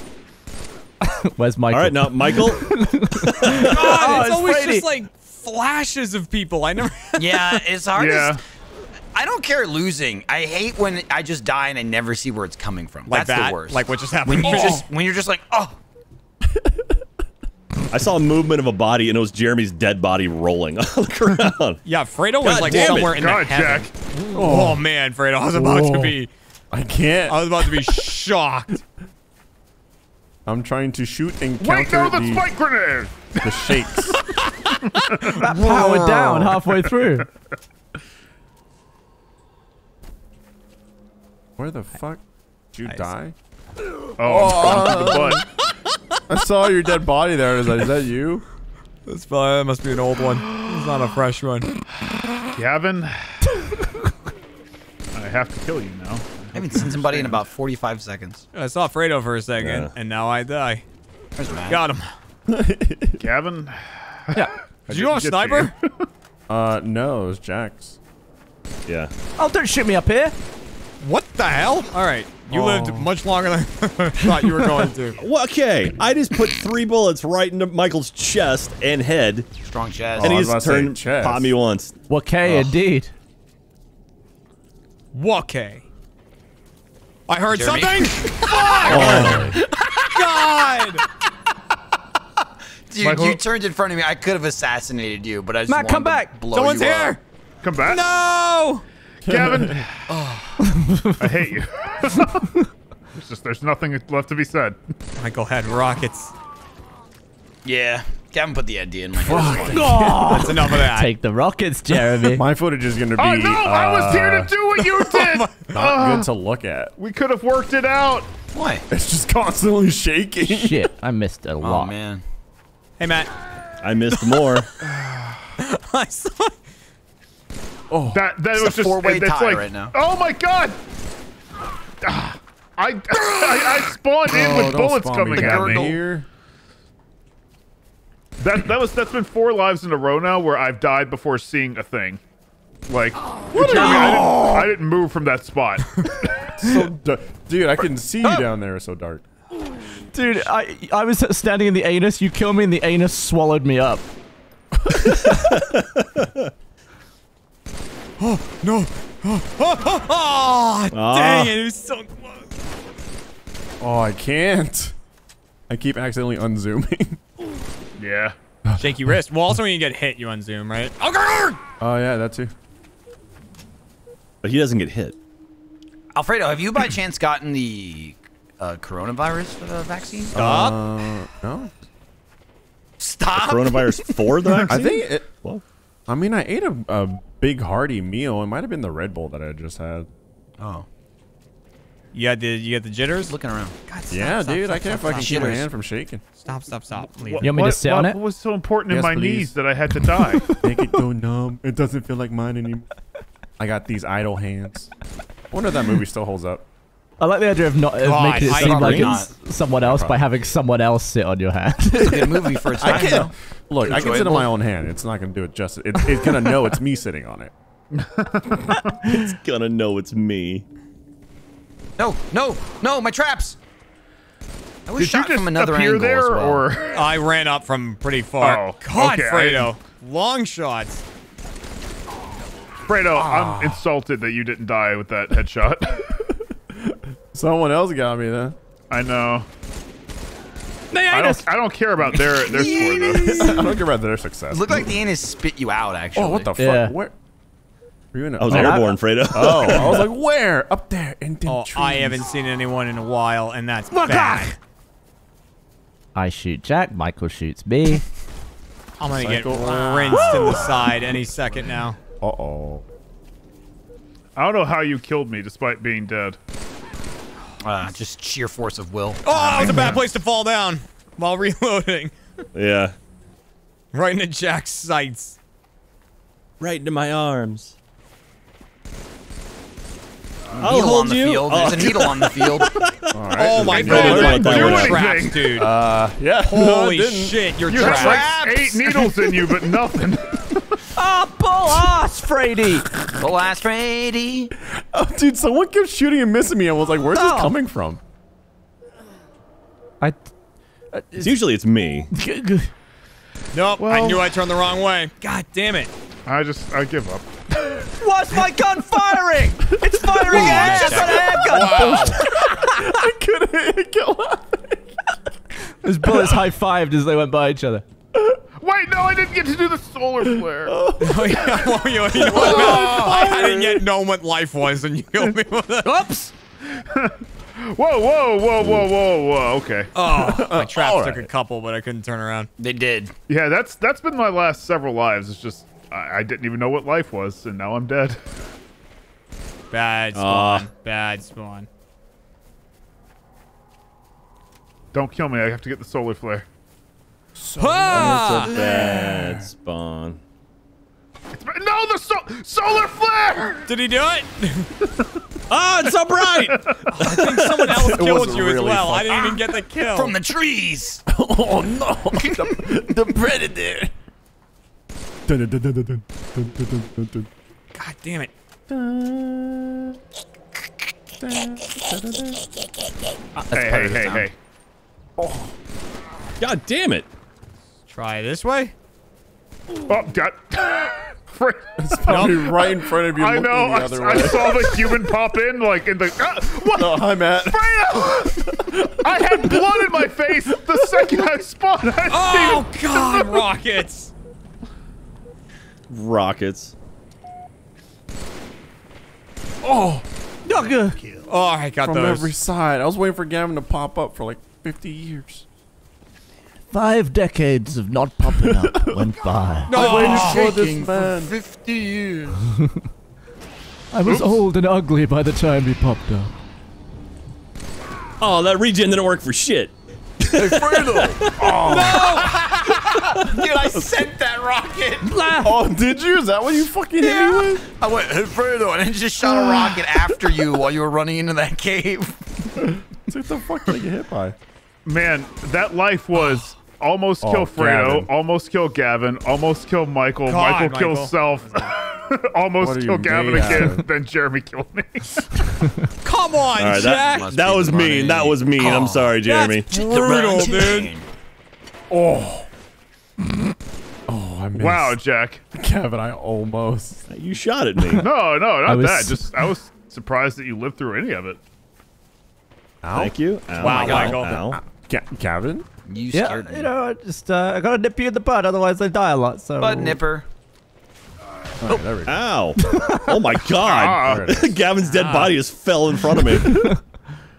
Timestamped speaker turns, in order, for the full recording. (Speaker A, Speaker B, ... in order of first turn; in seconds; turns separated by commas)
Speaker A: 1.0-4.9, Speaker B: 1.7-3.7, Speaker C: 3.5-7.6, Speaker D: 3.9-4.2, Speaker D: 7.2-8.4, Speaker E: 7.9-8.4, Speaker D: 9.1-15.8, Speaker C: 13.1-14.9, Speaker F: 16.4-17.0, Speaker B: 17.9-21.8, Speaker C: 21.8-26.3, Speaker B: 22.4-23.2, Speaker D: 22.6-23.3, Speaker E: 22.8-23.9, Speaker F: 24.3-24.8, Speaker F: 25.5-26.2, Speaker F: 26.7-27.5, Speaker C: 27.3-28.8, Speaker F: 30.4-32.5, Speaker E: 31.6-34.0, Speaker F: 33.4-34.1, Speaker E: 34.9-35.4, Speaker C: 35.2-36.4, Speaker A: 35.3-37.3, Speaker F: 41.6-42.2, Speaker F: 42.7-43.4, Speaker C: 42.9-43.1, Speaker E: 44.2-45.4, Speaker F: 44.2-45.4, Speaker F: 46.3-48.5, Speaker C: 49.1-51.8, Speaker E: 52.5-53.6, Speaker E: 55.1-57.4, Speaker D: 56.5-58.4, Speaker C: 58.5-60.8, Speaker B: 59.6-59.9, Speaker D: 61.4-61.8, Speaker C: 61.6-62.1, Speaker F: 62.5-63.2, Speaker E: 63.2-65.9, Speaker C: 64.9-65.7, Speaker F: 66.5-68.0, Speaker A: 69.4-70.3, Speaker C: 71.0-75.2, Speaker F: 72.5-73.0, Speaker F: 74.2-75.1, Speaker B: 75.2-79.5, Speaker D: 79.6-80.4, Speaker F: 80.2-81.5, Speaker B: 80.2-81.9, Speaker A: 82.1-83.1, Speaker C: 85.1-85.8, Speaker C: 87.3-91.0, Speaker D: 87.5-89.1, Speaker B: 88.8-89.6, Speaker F: 88.9-89.6, Speaker D: 92.9-97.2, Speaker E: 93.0-93.4, Speaker A: 95.7-96.3, Speaker C: 96.5-97.2, Speaker E: 97.6-98.0, Speaker C: 97.8-98.8, Speaker F: 99.2-99.8, Speaker E: 99.2-100.0, Speaker A: 100.6-101.5, Speaker E: 101.2-102.4, Speaker A: 102.3-102.6, Speaker E: 103.1-104.8, Speaker C: 105.2-106.3, Speaker D: 107.6-110.0, Speaker F: 109.1-110.4, Speaker A: 109.7-112.4, Speaker C: 110.2-111.1, Speaker F: 112.2-114.5, Speaker E: 113.2-116.3, Speaker C: 114.8-115.7, Speaker F: 115.7-116.9, Speaker E: 117.0-118.3, Speaker D: 118.5-118.8, Speaker F: 118.9-120.9, Speaker A: 120.4-121.9, Speaker D: 121.6-122.2, Speaker C: 123.0-123.3, Speaker B: 123.8-124.7, Speaker C: 124.2-124.5, Speaker F: 124.9-125.4, Speaker C: 125.6-126.5, Speaker F: 127.9-128.2, Speaker E: 128.1-130.8, Speaker D: 128.5-129.9, Speaker E: 132.0-135.9, Speaker F: 134.3-136.2, Speaker D: 135.3-136.0, Speaker E: 138.4-142.2, Speaker E: 142.9-146.4, Speaker F: 143.5-144.2, Speaker A: 143.6-144.5, Speaker C: 143.7-144.4, Speaker F: 146.6-149.2, Speaker A: 150.1-154.0, Speaker F: 154.8-155.4, Speaker B: 155.1-156.5, Speaker C: 158.2-162.5, Speaker B: 160.9-161.5, Speaker F: 163.8-164.9, Speaker F: 165.7-167.2, Speaker E: 168.0-168.3, Speaker C: 168.8-171.6, Speaker F: 171.8-172.5, Speaker B: 174.4-175.2, Speaker D: 176.1-180.3, Speaker F: 180.3-181.7, Speaker C: 180.3-180.8, Speaker D: 183.0-184.6, Speaker B: 183.3-185.6, Speaker F: 184.7-185.3, Speaker F: 186.1-190.1, Speaker D: 190.6-190.9, Speaker C: 192.1-193.3, Speaker D: 193.3-193.7, Speaker C: 193.9-195.6, Speaker F: 194.1-196.2, Speaker D: 195.1-195.7, Speaker C: 196.4-197.5, Speaker E: 197.1-200.6, Speaker A: 197.4-198.2, Speaker F: 198.9-199.5, Speaker F: 200.6-202.9, Speaker F: 203.6-204.9, Speaker F: 205.5-206.6, Speaker A: 207.2-212.6, Speaker C: 208.0-209.2, Speaker D: 208.4-209.3, Speaker F: 209.8-210.2, Speaker D: 211.9-214.5, Speaker F: 212.0-217.5, Speaker E: 217.9-219.1, Speaker B: 219.2-220.6, Speaker D: 222.0-223.6, Speaker D: 224.9-226.6, Speaker E: 225.0-227.0, Speaker C: 226.9-231.0, Speaker E: 228.4-229.7, Speaker E: 232.9-236.0, Speaker F: 233.2-233.8, Speaker F: 236.7-238.6, Speaker E: 238.9-239.5, Speaker A: 240.9-241.4, Speaker E: 241.1-243.4, Speaker D: 242.1-243.7, Speaker F: 243.1-245.0, Speaker D: 244.5-246.5, Speaker F: 246.1-247.1, Speaker A: 246.6-246.9, Speaker F: 248.1-252.3, Speaker B: 248.4-250.1, Speaker A: 248.5-248.8, Speaker C: 251.4-254.5, Speaker A: 253.9-254.6, Speaker A: 256.1-258.0, Speaker C: 259.0-262.0, Speaker F: 259.1-260.9, Speaker F: 262.2-262.8, Speaker E: 264.4-266.4, Speaker D: 267.6-270.0, Speaker C: 269.2-272.1, Speaker F: 269.6-270.0, Speaker B: 272.5-272.9, Speaker C: 273.9-275.4, Speaker B: 276.6-277.7, Speaker B: 280.6-285.0, Speaker D: 280.6-282.8, Speaker F: 283.1-284.6, Speaker C: 283.4-285.7, Speaker E: 283.8-285.6, Speaker F: 285.5-287.4, Speaker C: 286.4-288.3, Speaker E: 287.7-290.8, Speaker D: 287.7-289.1, Speaker A: 291.0-292.9, Speaker D: 293.2-294.5, Speaker F: 294.7-298.0, Speaker A: 297.1-297.5, Speaker A: 300.0-300.2, Speaker A: 300.9-301.3, Speaker B: 301.2-302.1, Speaker A: 302.1-302.7, Speaker C: 303.5-305.9, Speaker E: 303.8-304.3, Speaker E: 306.2-307.9, Speaker A: 308.0-312.9, Speaker F: 309.6-310.4, Speaker D: 310.3-311.3, Speaker C: 310.4-312.2, Speaker F: 312.0-315.1, Speaker A: 315.8-317.8, Speaker F: 318.1-318.4, Speaker E: 318.6-320.8, Speaker F: 320.2-321.6, Speaker C: 321.0-326.1, Speaker F: 322.2-323.8, Speaker E: 322.2-323.3, Speaker D: 325.9-326.3, Speaker E: 326.6-329.9, Speaker F: 328.6-328.9, Speaker C: 329.9-332.5, Speaker F: 330.1-331.3, Speaker D: 332.6-333.1, Speaker E: 333.3-338.2, Speaker C: 339.7-341.7, Speaker B: 340.1-340.7, Speaker E: 344.9-346.4, Speaker F: 347.4-349.5, Speaker C: 347.6-348.6, Speaker B: 348.1-350.2, Speaker E: 351.3-353.7, Speaker C: 353.7-354.7, Speaker B: 355.5-357.9, Speaker E: 355.9-356.9, Speaker C: 356.9-360.2, Speaker F: 357.6-359.2, Speaker D: 359.1-361.0, Speaker F: 361.1-363.9, Speaker D: 362.1-362.9, Speaker F: 365.3-367.3, Speaker C: 367.7-368.3, Speaker F: 368.7-370.0, Speaker F: 371.2-372.5, Speaker D: 373.5-374.3, Speaker E: 373.5-374.3, Speaker F: 375.2-375.5, Speaker B: 376.4-377.1, Speaker C: 377.9-378.7, Speaker E: 379.9-393.5, Speaker F: 381.8-385.1, Speaker C: 382.1-382.5, Speaker F: 386.7-391.1, Speaker C: 392.1-394.1, Speaker B: 395.9-396.7, Speaker F: 399.6-400.1, Speaker A: 400.4-401.0, Speaker C: 401.3-402.3, Speaker F: 401.8-405.4, Speaker A: 406.7-409.7, Speaker F: 408.2-409.1, Speaker F: 409.6-411.3, Speaker C: 409.7-410.5, Speaker D: 409.7-412.4, Speaker A: 412.5-412.8, Speaker A: 413.9-416.3, Speaker E: 414.0-414.4, Speaker B: 418.2-419.7, Speaker D: 420.3-421.2, Speaker F: 420.4-422.4, Speaker B: 421.2-421.5, Speaker C: 421.6-422.5, Speaker D: 421.9-425.1, Speaker A: 425.0-425.6, Speaker F: 425.4-427.6, Speaker D: 427.0-432.2, Speaker F: 432.6-434.4, Speaker E: 434.9-445.6, Speaker F: 437.2-438.1, Speaker C: 440.2-441.1, Speaker F: 442.6-443.8, Speaker C: 446.0-447.3, Speaker B: 446.6-449.7, Speaker D: 446.7-449.2, Speaker C: 449.2-450.9, Speaker D: 449.7-451.1, Speaker F: 451.9-452.5, Speaker F: 454.1-455.0, Speaker E: 454.6-455.4, Speaker F: 455.5-457.1, Speaker B: 457.1-458.1, Speaker E: 458.0-461.4, Speaker A: 458.6-459.4, Speaker F: 462.8-465.6, Speaker B: 462.9-464.6, Speaker C: 463.6-464.5, Speaker D: 463.8-464.2, Speaker D: 465.9-466.7, Speaker A: 466.1-470.0, Speaker D: 469.6-470.3, Speaker F: 471.6-472.2, Speaker B: 472.0-476.7, Speaker A: 472.6-473.2, Speaker E: 473.6-474.3, Speaker F: 474.0-474.5, Speaker C: 474.8-475.3